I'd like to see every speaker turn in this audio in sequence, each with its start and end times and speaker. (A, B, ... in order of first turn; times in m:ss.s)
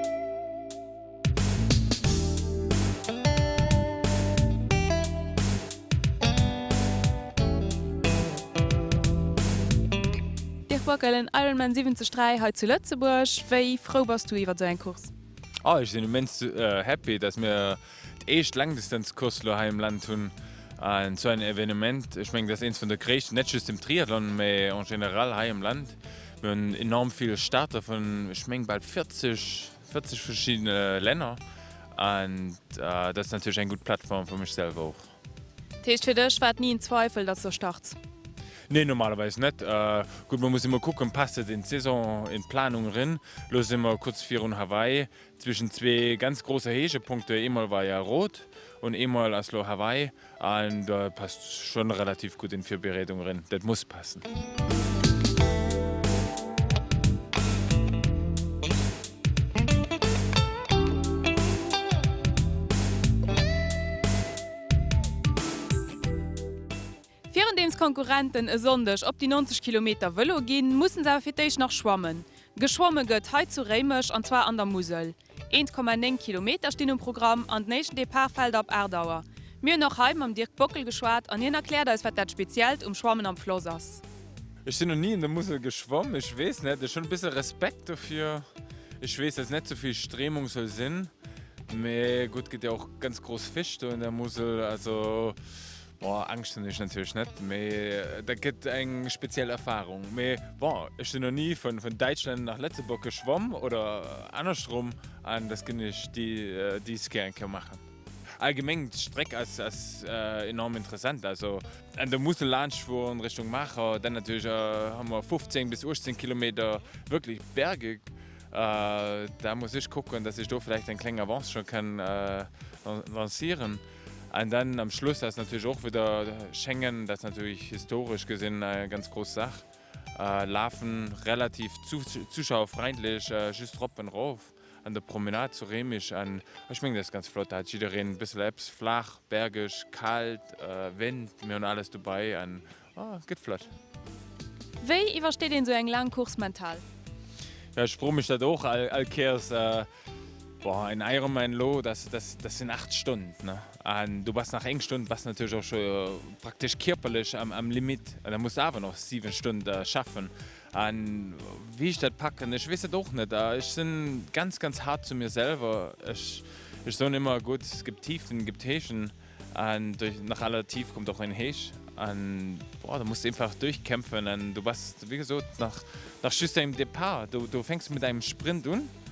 0:10.7-0:15.1 A
0:15.6-0:31.4 B
0:32.0-0:35.1 B
0:35.8-0:38.0 A
0:38.7-0:54.2 B
1:07.3-1:24.0 A
1:24.6-1:28.5 B
1:29.0-1:31.1 B
1:31.7-1:35.4 B
1:36.0-1:47.8 B
1:48.4-2:23.7 B
2:24.8-2:26.8 A
2:27.8-2:29.9 B
2:30.6-2:58.9 B